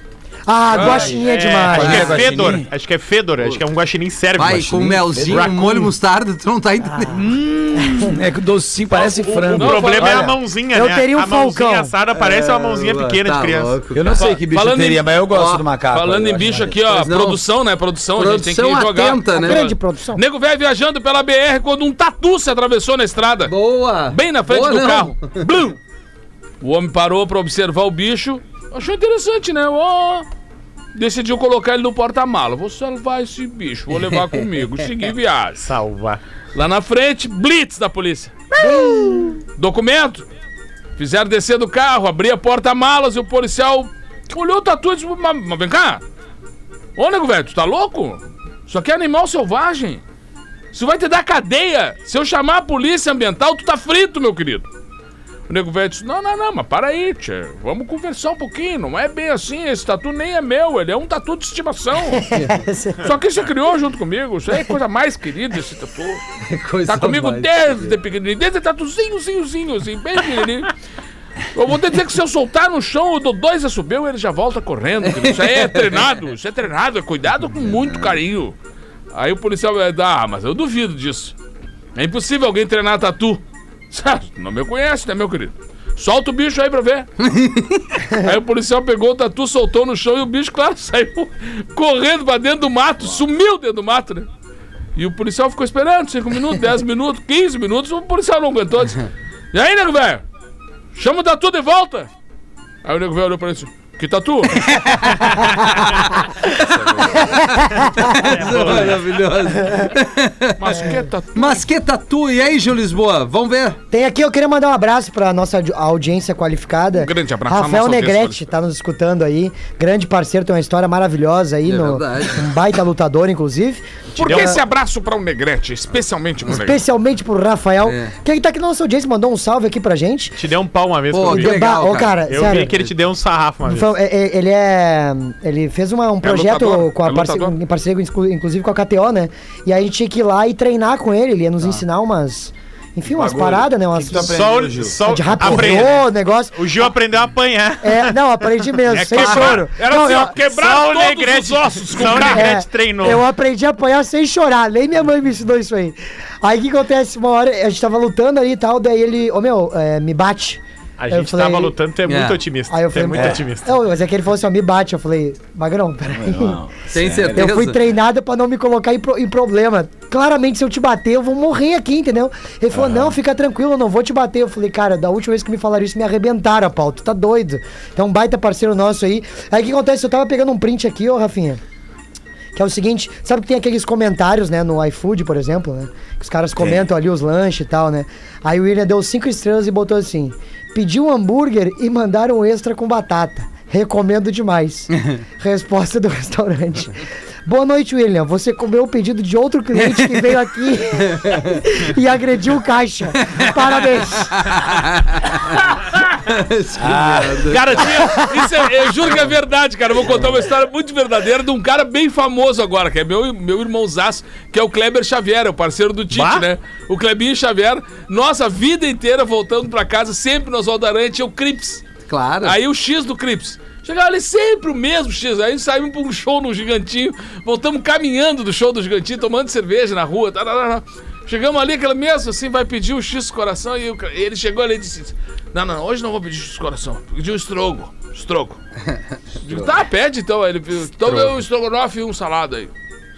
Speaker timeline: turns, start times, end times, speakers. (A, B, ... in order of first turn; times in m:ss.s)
0:00.5-0:02.3 A
0:00.7-0:01.2 B
0:00.7-0:02.7 C
0:01.2-0:05.9 D
0:01.8-0:02.2 E
0:04.4-0:07.2 E
0:04.5-0:05.5 C
0:07.0-0:10.4 C
0:08.9-0:14.4 D
0:09.4-0:10.3 B
0:10.7-0:11.9 A
0:12.1-0:14.2 E
0:13.9-0:16.8 C
0:14.5-0:15.0 B
0:15.3-0:15.6 E
0:15.9-0:23.5 B
0:16.9-0:17.4 E
0:18.2-0:19.7 E
0:19.4-0:20.2 A
0:23.4-0:25.4 E
0:24.1-0:25.8 B
0:26.6-0:30.2 B
0:30.9-0:35.6 B
0:35.6-0:36.2 D
0:36.5-0:38.4 B
0:38.6-0:39.4 A
0:38.6-0:39.3 E
0:39.6-0:40.2 B
0:41.0-0:46.0 B
0:47.0-0:50.0 B
0:50.7-0:54.6 B
0:55.5-1:02.2 B
1:02.3-1:03.0 A
1:03.0-1:06.2 B
1:06.4-1:07.9 E
1:06.9-1:10.7 B
1:11.5-1:18.5 B
1:15.0-1:16.0 E
1:17.7-1:18.2 C
1:19.1-1:21.3 B
1:21.9-1:27.1 B
1:27.2-1:27.8 E
1:28.1-1:34.3 B
1:35.0-1:40.2 B
1:40.9-1:42.1 B
1:42.8-1:46.0 B
1:44.6-1:46.0 E
1:46.5-1:47.4 B
1:46.6-1:53.8 E
1:48.3-1:49.1 D
1:50.6-1:51.6 B
1:50.7-1:51.0 A
1:53.9-2:04.6 A
1:56.9-1:58.5 B
2:01.6-2:02.5 E
2:04.2-2:06.8 B
2:04.2-2:04.5 D
2:06.5-2:10.4 A
2:07.8-2:08.1 E
2:10.4-2:11.7 D
2:11.1-2:12.2 E
2:11.2-2:12.8 A
2:12.3-2:13.9 D
2:13.6-2:24.4 A
2:16.2-2:17.5 B
2:23.1-2:25.8 C
2:24.1-2:29.7 D
2:25.0-2:26.8 A
2:27.8-2:30.4 A
2:29.1-2:32.5 B
2:30.4-2:33.2 D
2:32.0-2:41.8 A
2:41.0-2:43.8 D
2:42.0-2:42.4 E
2:42.7-2:46.6 A
2:43.1-2:43.4 C
2:46.0-2:47.5 C
2:46.9-2:47.8 E
2:47.3-3:01.6 A
2:52.7-2:53.1 C
3:02.5-3:24.5 A
3:06.6-3:06.8 C
3:19.8-3:20.3 E
3:21.0-3:21.6 E
3:24.3-3:25.6 E
3:26.2-3:27.8 E
3:26.8-3:27.5 C
3:27.5-3:41.8 B
3:28.2-3:28.4 A
3:36.1-3:36.4 D
3:42.1-3:42.6 E
3:42.4-3:58.6 B
3:59.4-4:02.7 B